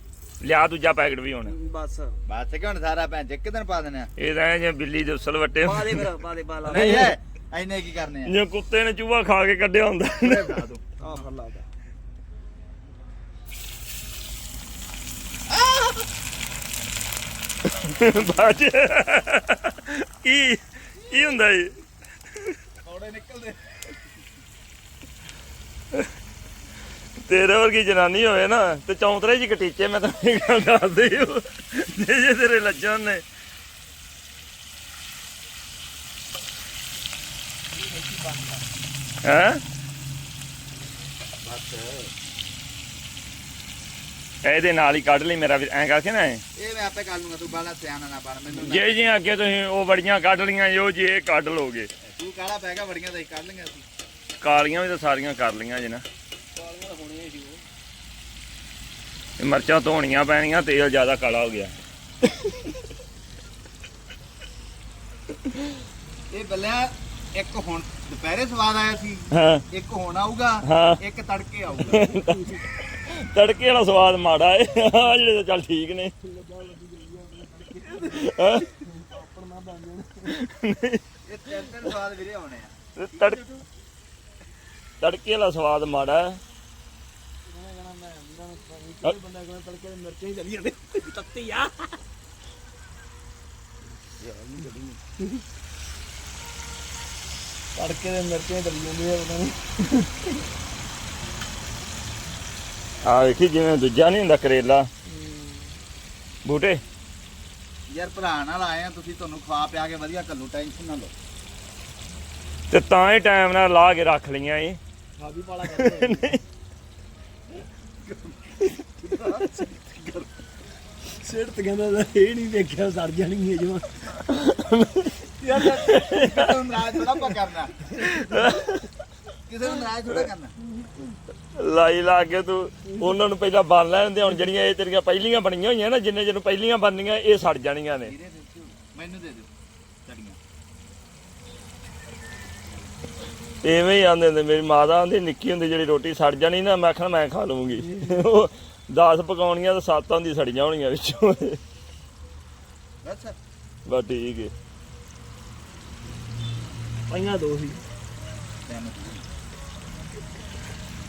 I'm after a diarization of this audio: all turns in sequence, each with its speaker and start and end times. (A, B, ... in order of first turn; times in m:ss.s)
0:00.4-0:01.5 A
0:01.4-0:02.2 B
0:02.3-0:04.1 C
0:04.2-0:06.1 A
0:05.6-0:07.1 B
0:06.6-0:08.4 C
0:06.7-0:07.1 A
0:08.2-0:10.7 A
0:10.2-0:10.8 C
0:11.0-0:11.6 B
0:17.7-0:21.8 A
0:22.8-0:23.6 C
0:27.2-0:33.2 A
0:37.8-0:38.6 B
0:39.2-0:39.6 A
0:41.4-0:42.1 C
0:44.4-0:46.4 A
0:46.6-0:48.8 C
0:48.5-0:48.8 B
0:48.6-0:51.9 A
0:52.1-0:53.8 C
0:54.4-0:56.0 A
0:56.6-0:57.6 B
0:59.4-1:01.7 A
1:06.3-1:12.1 C
1:09.3-1:09.6 A
1:10.6-1:11.0 A
1:11.9-1:16.1 A
1:16.2-1:20.4 B
1:18.1-1:18.7 A
1:20.3-1:21.0 A
1:21.2-1:22.7 C
1:23.0-1:23.6 A
1:25.0-1:26.4 A
1:27.4-1:32.0 B
1:34.2-1:35.4 B
1:37.8-1:40.1 B
1:43.0-1:44.9 A
1:45.1-1:45.7 B
1:46.4-1:46.8 A
1:47.9-1:51.1 C
1:52.7-1:54.8 A
1:55.2-1:56.4 B
1:55.6-1:56.4 A
1:58.1-1:58.3 C
1:58.8-1:59.7 B
1:59.0-2:00.2 C
2:01.1-2:04.0 B
2:04.3-2:06.8 A
2:05.4-2:08.0 C
2:08.0-2:08.9 A
2:09.5-2:10.5 C
2:11.6-2:18.1 A
2:18.0-2:19.5 C
2:20.0-2:20.4 C
2:23.6-2:31.6 A
2:27.8-2:28.2 B
2:33.0-2:33.4 C
2:33.8-2:34.5 A
2:37.1-2:37.8 B
2:38.6-2:39.2 C